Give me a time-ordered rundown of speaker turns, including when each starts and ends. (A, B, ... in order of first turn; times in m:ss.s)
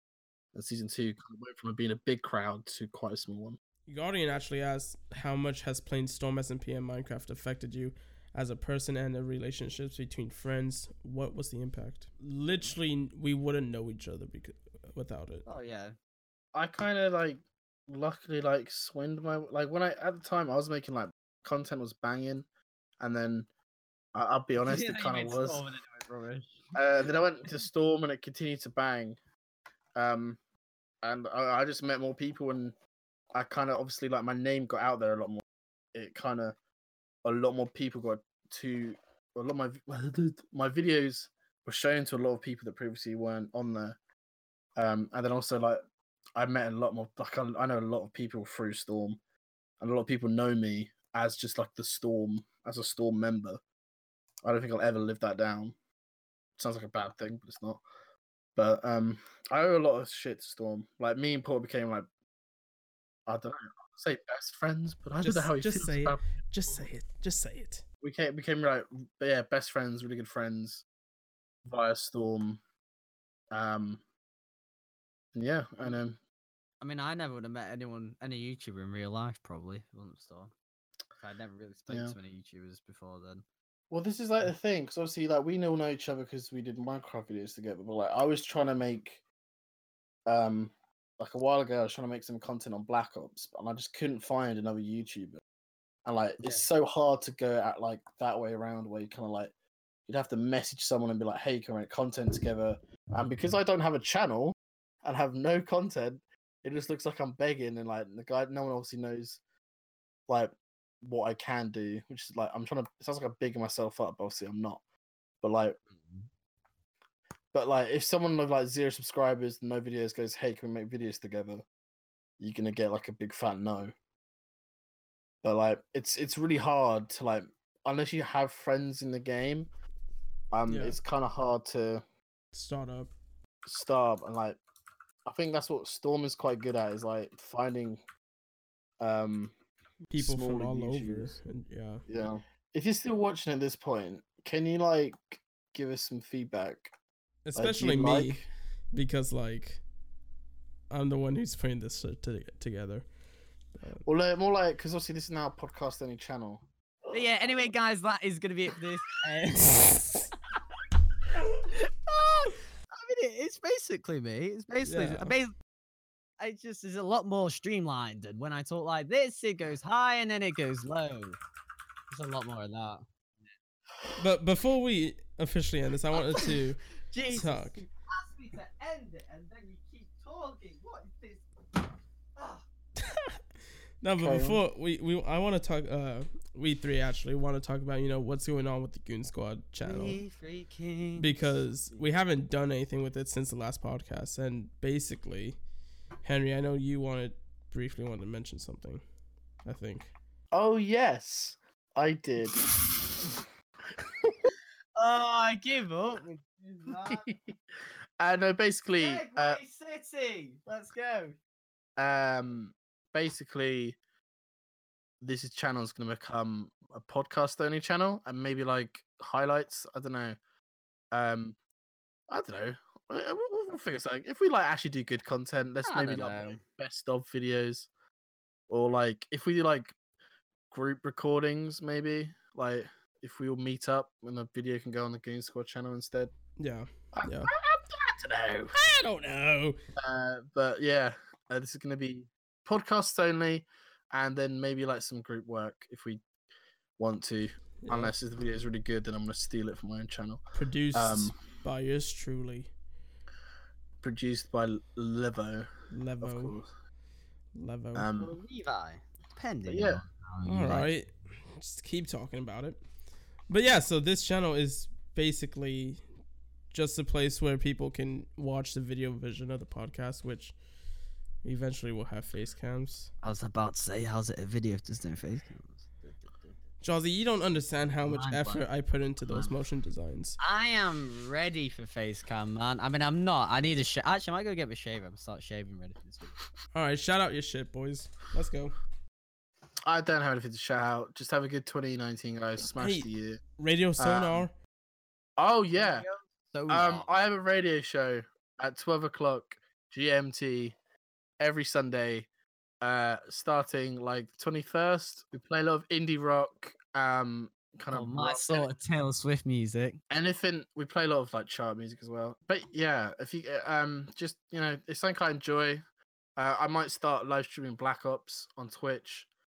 0:00.5-0:03.6 A
0:03.9-0:15.4 B
0:15.5-0:16.0 C
0:16.6-0:22.5 A
0:23.0-0:23.5 A
0:24.1-0:25.7 A
0:24.6-0:26.6 C
0:26.8-0:29.2 A
0:30.0-0:30.4 A
0:31.0-0:32.8 A
0:33.3-0:35.4 A
0:35.9-0:36.6 A
0:37.2-0:44.0 A
0:44.8-0:45.8 A
0:46.4-0:49.2 A
0:49.8-0:53.6 A
0:54.4-0:55.8 A
0:56.6-0:57.8 A
0:58.6-1:02.1 A
1:03.3-1:06.2 A
1:05.2-1:07.8 B
1:08.0-1:10.8 A
1:11.7-1:12.6 A
1:13.5-1:14.0 A
1:15.3-1:16.2 A
1:16.8-1:20.5 C
1:21.2-1:23.4 C
1:21.9-1:22.2 A
1:23.9-1:29.2 A
1:30.3-1:35.4 A
1:36.0-1:39.5 A
1:40.1-1:49.4 A
1:50.3-1:54.8 A
1:55.4-1:55.8 A
1:56.0-1:56.3 C
1:57.5-2:01.7 A
2:02.4-2:03.9 A
2:05.4-2:09.7 A
2:10.5-2:12.0 A
2:10.7-2:11.0 B
2:12.5-2:13.1 B
2:13.7-2:14.6 A
2:15.3-2:18.0 A
2:19.0-2:19.5 A
2:20.1-2:22.0 B
2:20.2-2:21.4 A
2:22.1-2:26.9 A
2:27.5-2:28.4 B
2:27.6-2:28.5 A
2:28.9-2:29.8 B
2:30.9-2:33.1 B
2:33.7-2:34.0 B
2:34.0-2:36.7 A
2:37.1-2:40.2 C
2:41.7-2:45.5 C
2:44.8-2:45.3 B
2:46.4-2:51.4 C
2:52.1-2:53.5 C
2:54.2-2:57.8 B
2:56.1-3:01.4 C
3:02.4-3:02.6 C
3:04.0-3:10.2 B
3:04.2-3:04.6 A
3:09.8-3:11.4 C
3:11.2-3:15.6 B
3:16.2-3:19.0 B
3:19.6-3:20.1 B
3:20.5-3:22.6 A
3:25.0-3:27.3 C
3:27.0-3:27.5 A
3:28.2-3:29.6 A
3:29.0-3:31.4 C
3:32.0-3:34.0 A
3:35.2-3:40.4 A
3:41.1-3:41.6 A
3:42.3-3:47.9 A
3:45.8-3:46.6 C
3:48.7-3:50.0 A
3:50.7-3:56.3 A
3:56.6-3:57.5 B
3:57.1-3:58.8 A
3:58.7-3:59.8 B
4:00.0-4:06.2 A
4:07.0-4:10.4 A
4:07.8-4:08.1 B
4:10.6-4:12.7 B
4:10.9-4:11.4 A
4:14.0-4:16.7 A
4:15.9-4:16.6 B
4:17.5-4:18.1 B
4:18.0-4:18.4 A
4:18.2-4:20.9 C
4:19.7-4:20.0 A
4:20.4-4:22.8 B
4:23.5-4:26.0 B
4:26.7-4:30.6 B
4:31.4-4:33.1 B
4:33.2-4:36.6 C
4:36.8-4:40.4 B
4:38.0-4:38.6 C
4:40.4-4:46.4 C
4:46.7-4:48.8 B
4:49.9-4:53.4 A
4:52.8-4:54.5 B
4:54.0-4:54.5 A
4:55.4-4:56.1 A
4:55.8-4:57.1 C
4:56.7-5:00.8 A
5:01.4-5:02.3 A
5:02.8-5:08.7 A
5:07.9-5:10.0 C
5:10.1-5:15.8 A
5:16.4-5:19.3 A